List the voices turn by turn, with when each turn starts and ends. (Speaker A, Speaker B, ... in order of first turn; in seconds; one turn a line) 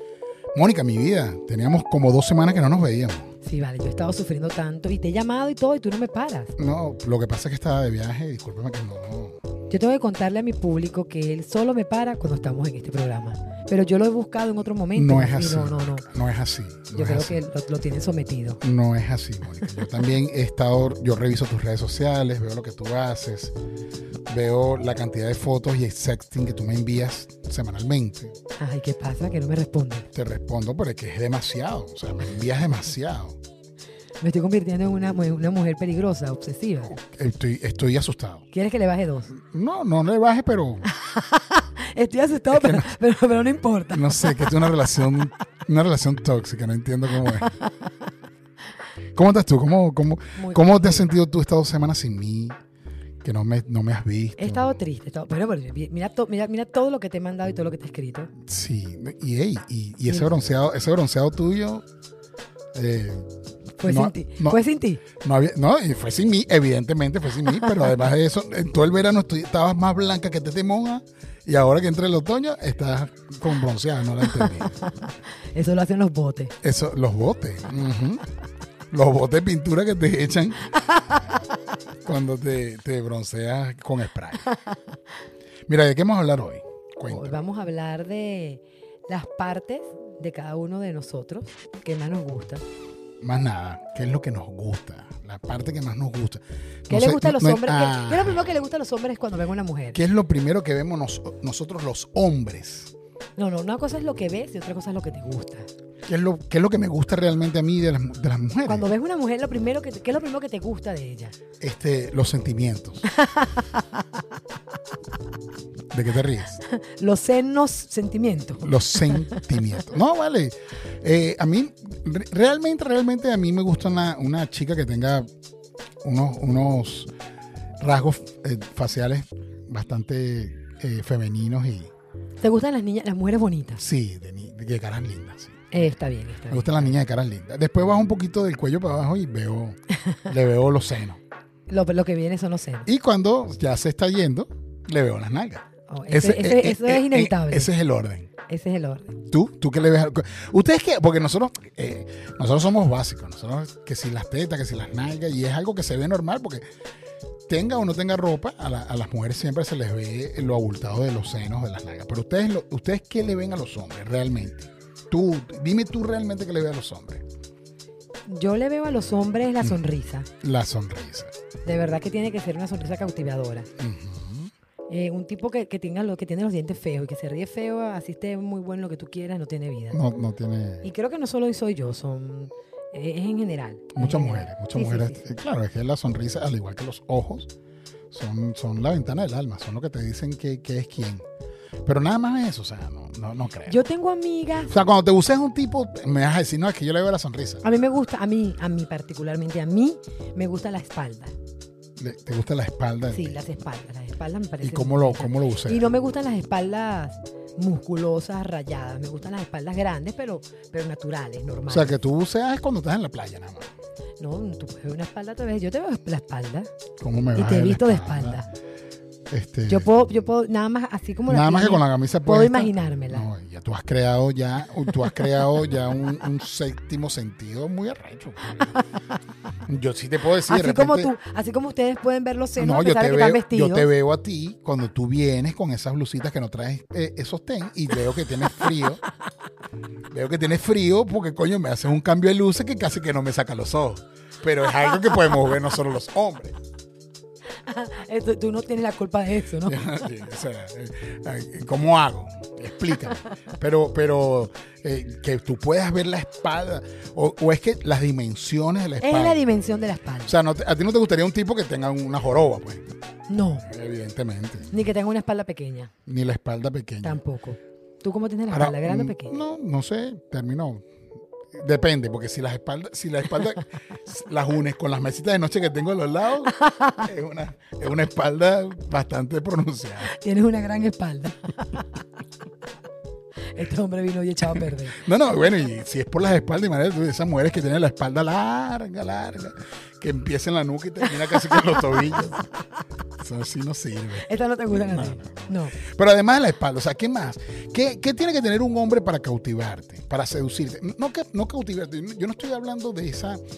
Speaker A: 0.5-3.3
Speaker B: 3.4-6.5
Speaker A: 6.6-9.4
Speaker B: 9.7-16.1
Speaker A: 14.9-17.4
Speaker B: 16.9-18.6
Speaker A: 18.6-23.5
Speaker A: 24.3-28.4
Speaker B: 28.6-30.1
Speaker A: 30.1-33.4
Speaker B: 34.2-36.9
Speaker A: 36.9-38.5
Speaker B: 38.5-39.3
Speaker A: 39.3-40.9
Speaker B: 40.9-44.5
Speaker A: 42.5-42.9
Speaker A: 43.9-47.5
Speaker B: 47.3-47.7
Speaker A: 49.1-52.6
Speaker B: 50.4-51.1
Speaker A: 53.2-54.7
Speaker B: 54.4-58.3
Speaker A: 58.4-61.8
Speaker A: 62.7-63.3
Speaker B: 63.8-65.0
Speaker A: 63.8-74.8
Speaker B: 74.4-76.5
Speaker A: 76.6-78.2
Speaker A: 78.9-80.7
Speaker A: 82.0-84.5
Speaker A: 85.7-87.4
Speaker B: 87.1-92.6
Speaker A: 93.2-98.6
Speaker B: 96.9-100.0
Speaker A: 99.9-102.9
Speaker B: 103.4-105.7
Speaker A: 106.0-108.9
Speaker B: 108.6-111.3
Speaker A: 111.6-113.1
Speaker B: 113.1-114.0
Speaker A: 115.9-116.6
Speaker B: 116.7-119.6
Speaker A: 118.6-125.3
Speaker A: 126.0-127.1
Speaker A: 127.8-131.9
Speaker B: 132.4-133.8
Speaker A: 133.8-135.9
Speaker B: 135.7-136.9
Speaker A: 136.5-141.2
Speaker B: 141.7-142.9
Speaker A: 142.8-148.3
Speaker B: 145.9-147.7
Speaker B: 148.4-149.2
Speaker A: 149.3-156.6
Speaker A: 157.5-167.2
Speaker B: 168.2-170.3
Speaker A: 170.4-171.3
Speaker B: 171.6-173.7
Speaker A: 173.8-174.5
Speaker B: 174.9-180.0
Speaker A: 179.9-180.8
Speaker B: 180.8-185.2
Speaker A: 183.9-187.5
Speaker A: 188.1-191.2
Speaker A: 191.8-193.8
Speaker B: 193.7-194.8
Speaker A: 194.7-197.6
Speaker B: 197.6-201.3
Speaker A: 202.0-203.4
Speaker B: 203.1-211.9
Speaker A: 204.6-205.8
Speaker A: 211.7-213.7
Speaker B: 214.2-216.7
Speaker A: 217.0-218.4
Speaker B: 217.3-218.5
Speaker A: 219.3-219.9
Speaker B: 219.7-223.2
Speaker A: 221.3-228.7
Speaker A: 229.7-231.1
Speaker B: 230.5-233.9
Speaker A: 232.6-239.0
Speaker A: 240.1-246.6
Speaker B: 247.6-249.9
Speaker A: 249.6-259.4
Speaker B: 259.0-260.3
Speaker A: 260.2-262.9
Speaker B: 263.3-263.7
Speaker A: 263.6-264.7
Speaker B: 264.7-265.9
Speaker A: 266.1-267.2
Speaker B: 267.0-269.4
Speaker A: 268.5-270.8
Speaker A: 271.5-280.1
Speaker B: 276.6-277.0
Speaker B: 280.0-281.8
Speaker B: 283.5-285.0
Speaker A: 284.9-292.6
Speaker A: 293.2-303.4
Speaker B: 294.2-295.8